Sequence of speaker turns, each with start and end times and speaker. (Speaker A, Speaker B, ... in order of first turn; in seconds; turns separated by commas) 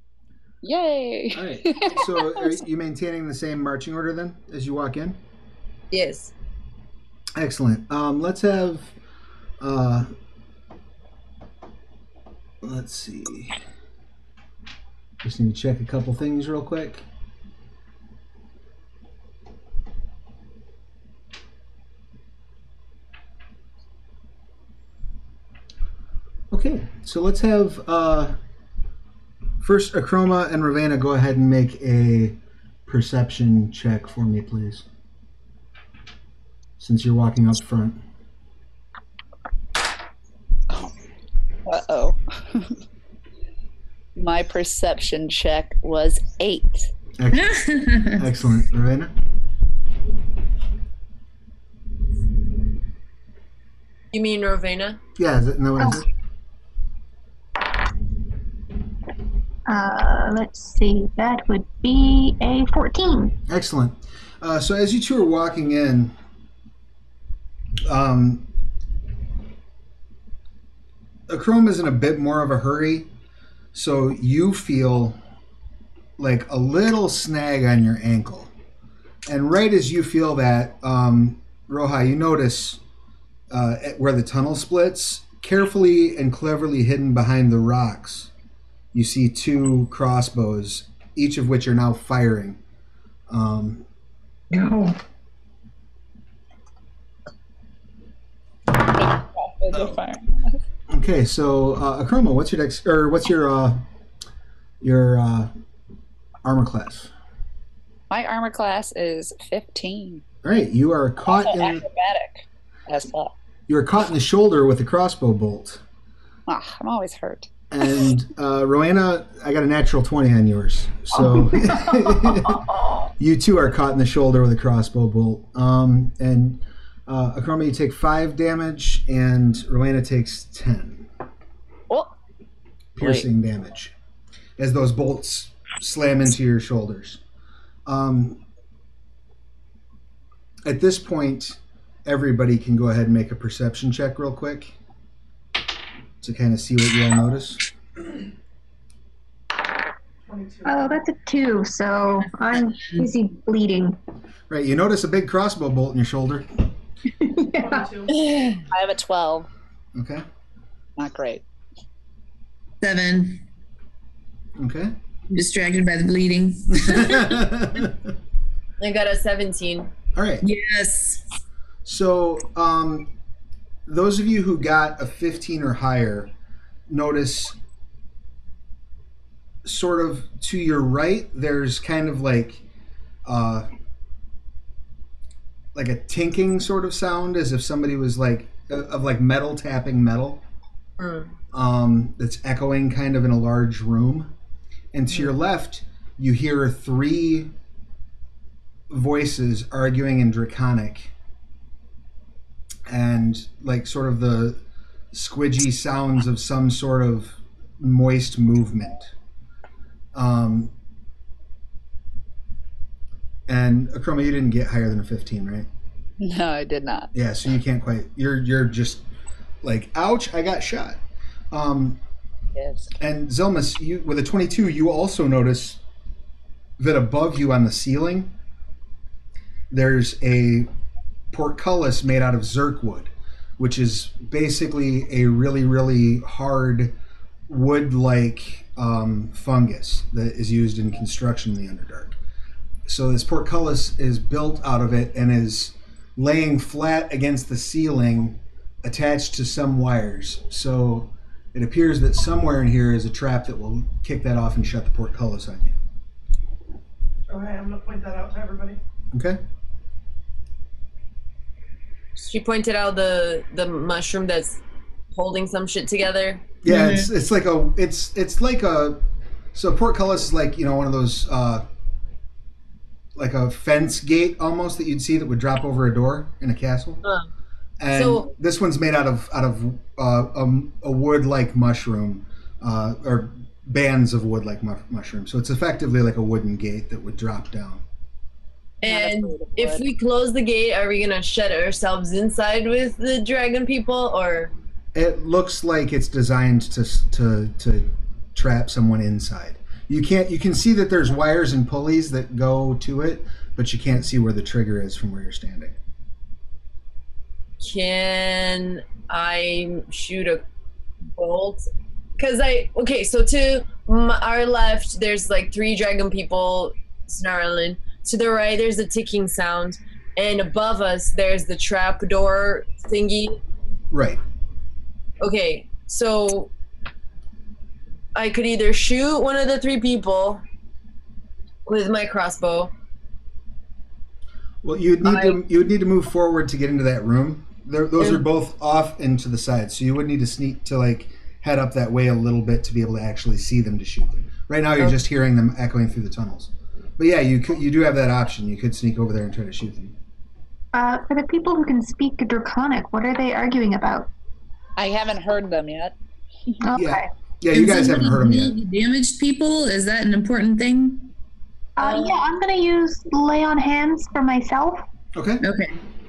Speaker A: 0.6-2.5, Speaker B: 1.3-5.2, Speaker C: 5.9-6.3, Speaker B: 7.3-8.9, Speaker B: 9.6-10.1, Speaker B: 12.6-13.5, Speaker B: 15.2-17.0, Speaker B: 26.5-28.4, Speaker B: 29.6-34.9, Speaker B: 36.8-38.0, Speaker A: 41.6-42.8, Speaker A: 44.1-46.9, Speaker B: 47.2-49.1, Speaker D: 47.3-48.3, Speaker C: 54.1-55.0, Speaker B: 55.2-56.1, Speaker E: 59.7-63.4, Speaker B: 63.5-66.1, Speaker B: 67.8-68.5, Speaker B: 71.3-73.1, Speaker B: 73.7-75.2, Speaker B: 76.2-78.5, Speaker B: 79.2-82.8, Speaker B: 83.5-88.3, Speaker B: 88.9-92.6, Speaker B: 93.3-93.8, Speaker E: 94.5-95.0, Speaker A: 98.8-100.6, Speaker B: 100.9-103.8, Speaker B: 104.8-105.5, Speaker B: 106.4-107.1, Speaker A: 108.1-110.2, Speaker B: 110.4-111.8, Speaker A: 111.2-113.3, Speaker B: 113.7-115.8, Speaker A: 116.5-117.5, Speaker B: 117.7-122.6, Speaker B: 123.2-131.1, Speaker B: 132.9-133.9, Speaker A: 133.0-133.3, Speaker B: 134.6-137.2, Speaker B: 137.8-138.4, Speaker B: 140.6-144.7, Speaker B: 146.2-147.6, Speaker F: 150.2-150.9, Speaker E: 150.7-153.9, Speaker D: 152.7-153.1, Speaker B: 154.5-156.5, Speaker E: 157.2-157.9, Speaker F: 157.5-158.2, Speaker C: 158.2-158.6, Speaker A: 158.7-159.5, Speaker B: 159.9-160.2, Speaker A: 161.0-161.4, Speaker D: 162.8-163.4, Speaker B: 164.6-164.9, Speaker D: 165.3-167.4, Speaker B: 166.7-168.1, Speaker C: 168.8-169.9, Speaker B: 170.1-170.4, Speaker D: 170.4-171.2, Speaker B: 171.8-173.1, Speaker B: 173.8-176.3, Speaker B: 176.9-177.6, Speaker B: 179.6-182.6, Speaker B: 183.2-183.7, Speaker B: 185.7-190.4, Speaker C: 191.0-191.3, Speaker B: 191.5-194.3, Speaker B: 194.9-197.5, Speaker B: 198.9-201.1, Speaker B: 202.9-204.6, Speaker B: 205.1-209.1, Speaker B: 210.1-210.7, Speaker B: 213.5-215.7, Speaker A: 216.2-217.1, Speaker B: 217.1-219.0, Speaker B: 219.6-221.0, Speaker B: 221.5-222.0, Speaker A: 222.5-222.9, Speaker B: 223.0-225.8, Speaker B: 226.8-228.3, Speaker B: 229.7-230.7, Speaker B: 231.3-236.9, Speaker B: 237.5-242.2, Speaker B: 242.8-255.7, Speaker F: 257.3-258.8, Speaker B: 259.1-259.4, Speaker C: 262.1-264.6, Speaker C: 265.1-266.4, Speaker B: 266.6-269.0, Speaker D: 266.6-267.1, Speaker B: 269.5-271.6, Speaker B: 273.1-277.0, Speaker C: 277.0-277.3, Speaker B: 277.8-287.8, Speaker C: 277.9-278.3, Speaker C: 288.8-294.5, Speaker A: 288.8-289.8, Speaker B: 294.9-305.7, Speaker C: 307.6-310.4, Speaker C: 311.1-311.6, Speaker C: 312.2-323.4, Speaker B: 323.9-324.2, Speaker C: 325.2-326.5, Speaker C: 328.1-330.4, Speaker C: 331.6-332.7, Speaker B: 334.6-349.9, Speaker C: 335.1-335.4, Speaker E: 350.7-354.1, Speaker A: 354.8-355.9, Speaker E: 356.6-357.1, Speaker B: 356.7-358.6, Speaker D: 357.5-361.1, Speaker E: 361.8-364.8, Speaker A: 361.8-362.2, Speaker B: 365.1-365.4, Speaker D: 365.4-365.8